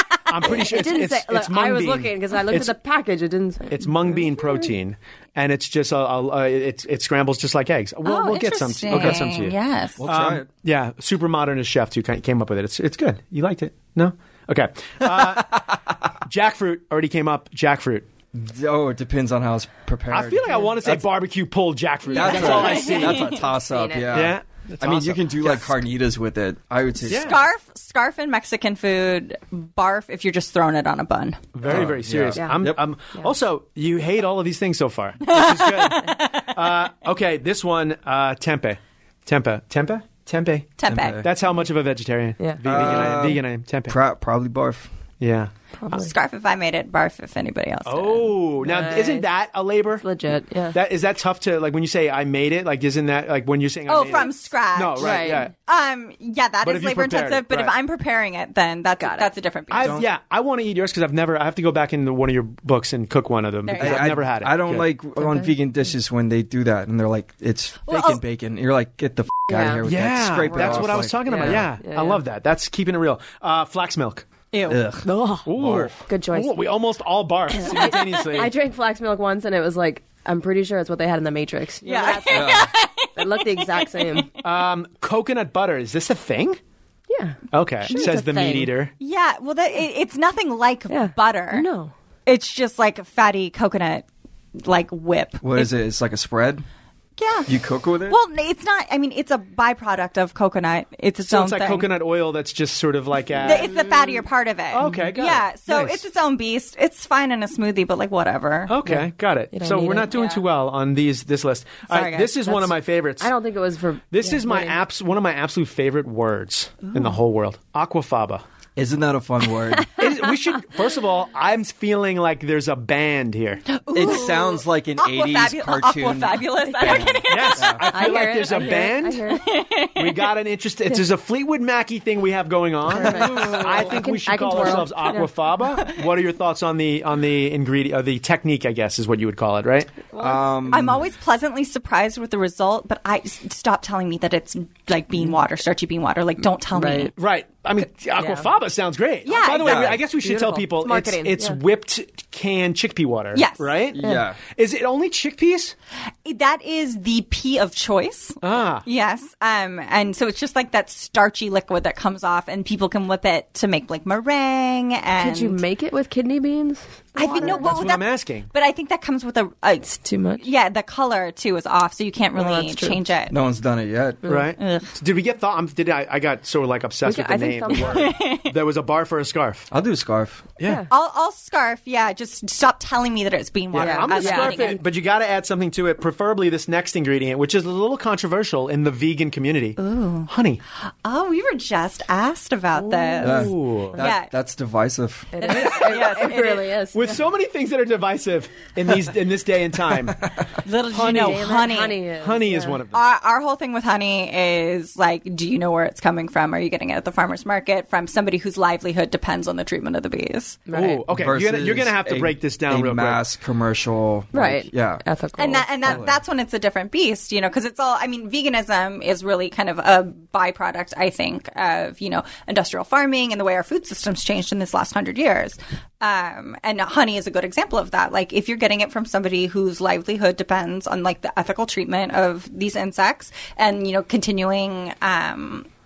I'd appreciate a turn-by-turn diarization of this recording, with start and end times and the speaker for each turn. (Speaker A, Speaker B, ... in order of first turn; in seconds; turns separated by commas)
Speaker A: 0.2-2.7, Speaker B: 0.4-4.7, Speaker A: 3.7-15.7, Speaker C: 8.0-10.0, Speaker D: 10.0-10.4, Speaker D: 15.0-15.9, Speaker A: 16.2-18.1, Speaker D: 18.3-21.0, Speaker A: 20.1-23.4, Speaker C: 22.1-23.4, Speaker D: 22.1-27.5, Speaker B: 23.5-24.1, Speaker A: 24.1-25.8, Speaker C: 27.0-31.6, Speaker A: 27.1-27.4, Speaker A: 31.5-44.0, Speaker D: 31.7-32.8, Speaker B: 32.4-33.3, Speaker C: 35.2-36.6, Speaker C: 40.8-41.3, Speaker D: 40.9-41.3, Speaker B: 42.4-43.2, Speaker D: 42.6-44.9, Speaker A: 45.2-46.0, Speaker B: 45.8-46.1, Speaker C: 45.9-48.4, Speaker A: 47.8-50.0, Speaker B: 48.6-49.3, Speaker B: 50.0-50.8, Speaker A: 50.7-55.5, Speaker C: 53.9-60.0, Speaker B: 55.0-55.5, Speaker A: 56.6-57.7, Speaker B: 59.0-59.3, Speaker A: 59.7-64.9, Speaker D: 59.7-60.1, Speaker C: 63.6-64.2, Speaker D: 63.8-71.7, Speaker B: 65.2-65.5, Speaker C: 67.9-68.2, Speaker B: 69.5-69.8, Speaker A: 69.8-74.2, Speaker B: 70.4-72.2, Speaker C: 74.5-74.8, Speaker D: 74.7-76.0, Speaker B: 75.0-75.5, Speaker A: 75.4-78.5, Speaker B: 76.0-76.7, Speaker B: 77.5-84.3, Speaker C: 81.8-84.2, Speaker D: 82.3-82.7, Speaker A: 84.4-86.6, Speaker B: 87.1-88.7, Speaker A: 87.5-88.9, Speaker C: 89.0-91.7, Speaker B: 90.9-91.9, Speaker C: 92.2-94.0, Speaker C: 94.6-95.7, Speaker D: 95.4-96.6, Speaker C: 97.2-97.5, Speaker D: 97.5-98.2, Speaker C: 98.1-101.9, Speaker A: 101.2-103.7, Speaker C: 103.4-108.8, Speaker A: 104.7-106.0, Speaker B: 104.8-105.1, Speaker A: 108.7-113.3, Speaker B: 108.8-110.1, Speaker C: 110.1-110.4, Speaker C: 111.9-112.6, Speaker B: 113.2-114.8, Speaker A: 114.1-118.4, Speaker D: 118.8-120.0, Speaker A: 119.9-123.6, Speaker C: 123.7-127.9, Speaker D: 123.9-127.8, Speaker B: 126.9-127.2, Speaker A: 127.2-129.2, Speaker B: 127.9-129.6, Speaker C: 129.3-130.3, Speaker A: 129.9-140.0, Speaker B: 132.9-135.3, Speaker C: 133.3-133.8, Speaker C: 135.7-136.0, Speaker C: 140.1-147.1, Speaker D: 140.2-141.1, Speaker B: 146.7-147.1, Speaker A: 147.1-155.7, Speaker B: 148.2-148.5, Speaker C: 149.2-150.0, Speaker D: 149.6-150.0, Speaker B: 150.1-151.6, Speaker C: 153.3-153.8, Speaker D: 153.9-154.4, Speaker C: 156.2-165.6, Speaker A: 158.4-158.8, Speaker B: 165.2-167.7, Speaker C: 167.1-173.3, Speaker A: 167.4-168.5, Speaker B: 169.9-170.4, Speaker B: 172.3-173.0, Speaker D: 173.3-174.2, Speaker B: 174.2-174.5, Speaker A: 174.2-179.7, Speaker C: 174.6-174.9, Speaker B: 177.0-178.1, Speaker C: 177.7-178.5, Speaker D: 179.7-180.5, Speaker A: 180.6-180.8, Speaker B: 180.6-180.9, Speaker C: 180.9-184.8, Speaker A: 183.7-190.6, Speaker B: 183.7-184.8, Speaker C: 189.8-190.3, Speaker C: 190.9-194.3, Speaker B: 192.7-193.5, Speaker D: 193.2-195.3, Speaker A: 193.2-194.0, Speaker B: 195.3-197.2, Speaker C: 195.4-196.6, Speaker A: 195.4-200.2, Speaker C: 200.6-202.0, Speaker A: 200.9-203.0, Speaker B: 200.9-202.8, Speaker C: 202.9-210.6, Speaker B: 210.7-211.0, Speaker A: 210.7-213.2, Speaker D: 211.1-215.0, Speaker B: 214.3-216.0, Speaker C: 215.4-235.7, Speaker D: 215.8-216.2